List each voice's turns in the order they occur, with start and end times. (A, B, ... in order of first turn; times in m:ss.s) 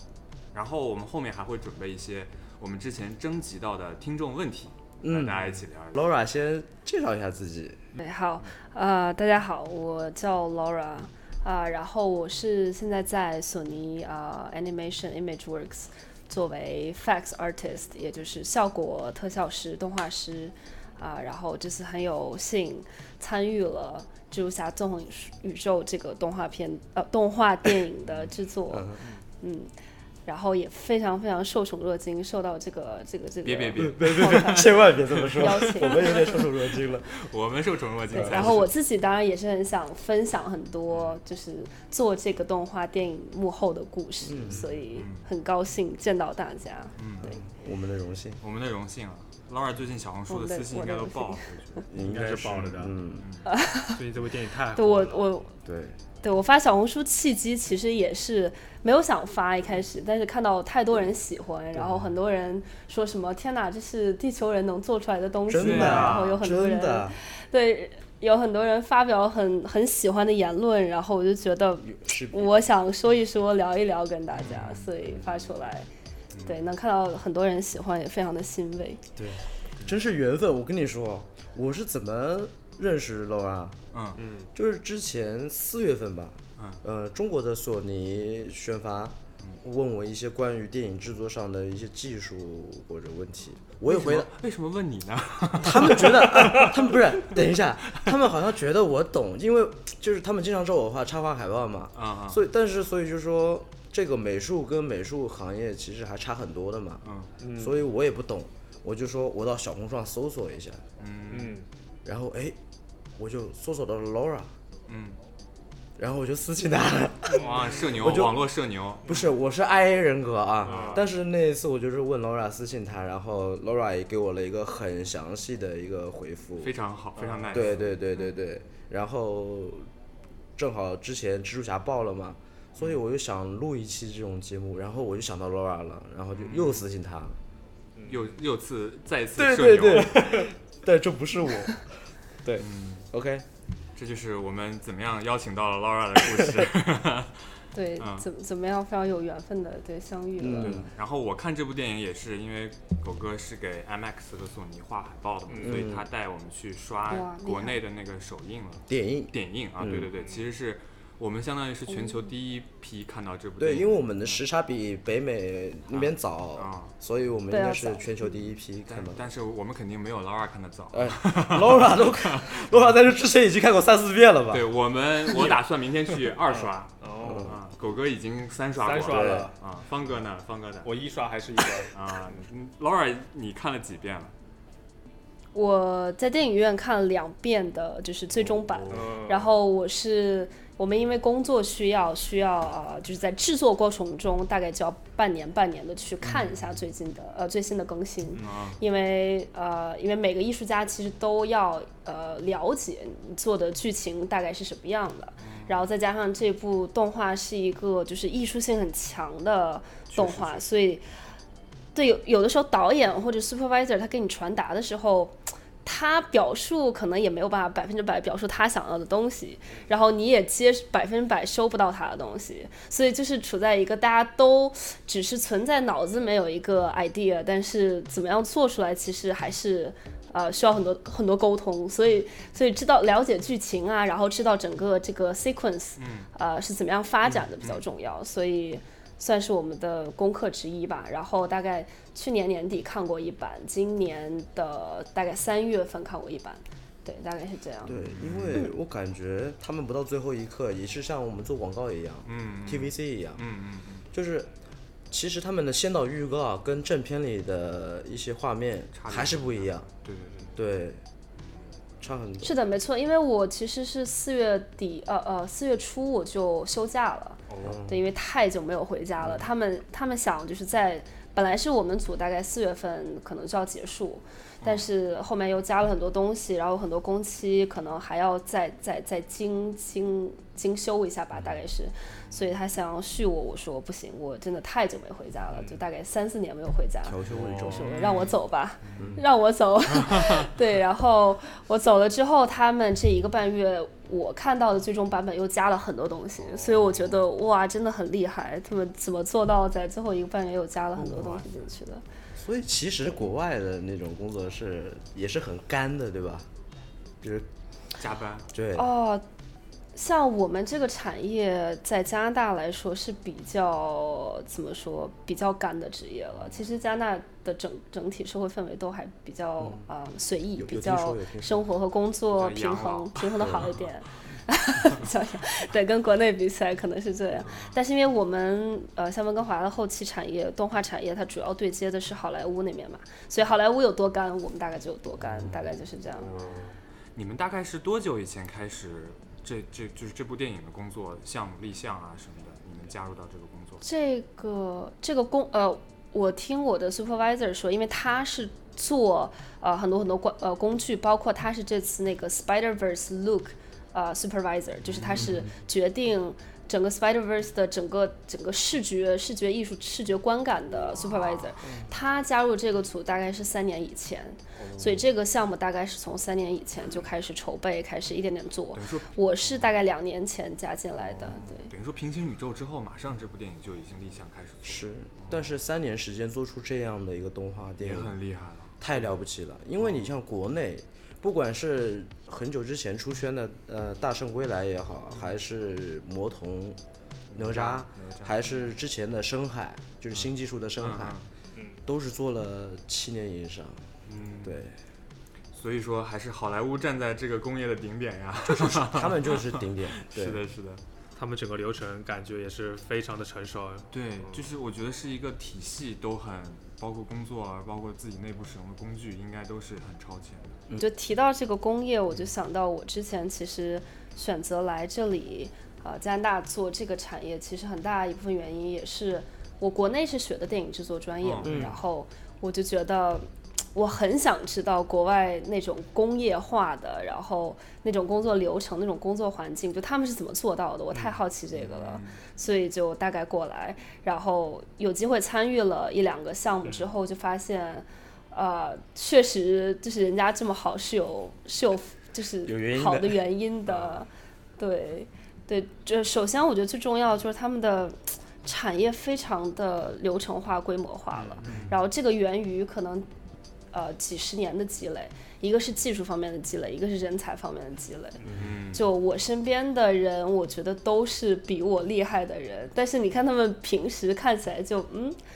0:00.5-0:06.1 A
0:05.0-0:07.8 B
0:08.0-0:29.7 C
0:28.7-0:29.0 B
0:30.2-0:34.6 C
0:33.4-0:36.4 A
0:33.8-0:37.1 B
0:35.3-0:36.3 C
0:37.1-0:38.7 A
0:38.1-0:38.6 B
0:38.1-0:47.4 C
0:40.9-0:41.2 A
0:44.2-0:44.7 B
0:44.9-0:45.2 A
0:47.0-0:47.3 A
0:47.2-0:48.4 B
0:48.4-0:51.9 A
0:50.3-0:51.5 C
0:51.9-0:53.3 B
0:51.9-0:53.0 D
0:52.5-0:53.5 A
0:53.4-0:54.0 C
0:53.9-0:55.3 D
0:54.7-0:55.5 C
0:55.6-0:56.0 B
0:56.2-1:15.9 C
1:01.7-1:02.1 B
1:05.5-1:07.2 B
1:05.5-1:06.4 A
1:11.8-1:12.6 B
1:14.4-1:14.9 A
1:15.1-1:15.3 B
1:16.3-1:16.6 A
1:16.4-1:19.0 C
1:19.2-1:23.8 B
1:23.9-1:24.2 A
1:24.2-1:24.5 D
1:24.5-1:34.3 B
1:33.8-1:37.0 A
1:35.6-1:47.0 B
1:41.9-1:42.4 A
1:47.0-1:47.3 A
1:47.4-1:47.8 D
1:47.5-1:50.8 B
1:51.0-1:51.6 A
1:51.3-1:51.7 D
1:52.0-1:52.6 B
1:53.2-1:54.5 B
1:54.9-1:55.2 A
1:56.0-1:58.5 B
1:57.3-1:59.0 A
1:57.3-1:58.2 D
1:59.0-2:06.7 B
2:00.6-2:01.0 D
2:00.7-2:01.0 A
2:06.6-2:07.9 A
2:07.2-2:07.9 D
2:07.5-2:09.9 B
2:10.6-2:17.4 B
2:16.4-2:16.9 A
2:18.0-2:18.4 D
2:18.1-2:20.5 A
2:19.4-2:21.9 B
2:22.4-2:23.4 B
2:22.6-2:23.0 A
2:23.9-2:28.3 A
2:27.7-2:30.8 C
2:30.4-2:30.9 B
2:30.6-2:44.4 A
2:35.5-2:35.8 D
2:35.6-2:36.0 B
2:37.1-2:37.8 C
2:38.9-2:40.1 B
2:41.9-2:42.3 C
2:43.6-2:49.2 B
2:45.9-2:46.9 A
2:47.5-2:48.4 C
2:48.9-2:53.0 A
2:50.9-2:54.7 B
2:54.5-3:00.9 A
2:56.5-2:57.5 D
2:57.2-2:57.6 B
2:58.8-2:59.6 D
2:59.0-2:59.5 B
3:00.8-3:02.4 D
3:01.9-3:04.3 A
3:05.5-3:31.0 C
3:08.4-3:09.2 A
3:08.9-3:09.5 D
3:16.2-3:16.8 A
3:18.3-3:18.8 A
3:25.4-3:25.9 A
3:30.1-3:30.6 A
3:31.9-4:08.0 C
3:56.0-3:56.3 A
4:07.8-4:13.4 B
4:07.9-4:08.6 A
4:12.2-4:14.1 A
4:14.1-4:14.5 B
4:15.1-4:19.9 B
4:18.9-4:20.5 A
4:20.5-4:21.0 B
4:21.4-4:21.7 A
4:22.0-4:22.5 B
4:22.4-5:02.0 C
4:27.5-4:27.8 A
4:27.6-4:28.0 B
4:29.2-4:29.5 B
4:34.6-4:34.9 A
4:47.0-4:47.8 B
4:47.3-4:47.8 D
4:47.7-4:49.1 A
4:49.0-4:49.2 B
4:50.1-4:50.4 A
5:00.9-5:01.4 B
5:02.4-5:06.5 B
5:07.2-5:07.5 B
5:08.0-5:08.5 A
5:08.5-5:08.9 B
5:08.8-5:09.2 C
5:09.9-5:36.3 C
5:16.3-5:16.7 A
5:19.6-5:19.9 B
5:20.6-5:21.7 B
5:22.3-5:23.9 A
5:23.4-5:23.6 B
5:27.5-5:27.7 A
5:37.1-5:43.8 A
5:43.8-6:11.7 C
5:54.8-5:55.3 A
5:55.1-5:55.5 B
6:01.1-6:01.3 A
6:01.6-6:01.9 B
6:04.6-6:05.0 A
6:08.7-6:09.7 A
6:11.1-6:15.5 A
6:14.6-6:18.2 B
6:17.8-6:19.2 A
6:18.8-6:26.8 B
6:19.8-6:20.1 A
6:27.3-6:28.6 A
6:27.3-6:31.2 B
6:30.1-6:31.3 A
6:31.8-6:33.9 B
6:34.0-6:34.6 A
6:34.4-6:34.8 B
6:35.5-6:40.8 A
6:38.4-6:40.4 B
6:41.2-6:44.5 D
6:43.9-6:50.6 A
6:50.8-7:33.1 C
7:01.2-7:01.6 A
7:01.4-7:01.8 B
7:11.5-7:12.2 A
7:22.4-7:23.2 B
7:23.7-7:23.9 A
7:31.2-7:31.7 A
7:31.4-7:31.7 B
7:33.7-7:45.2 C
7:38.2-7:38.6 B
7:38.3-7:38.9 A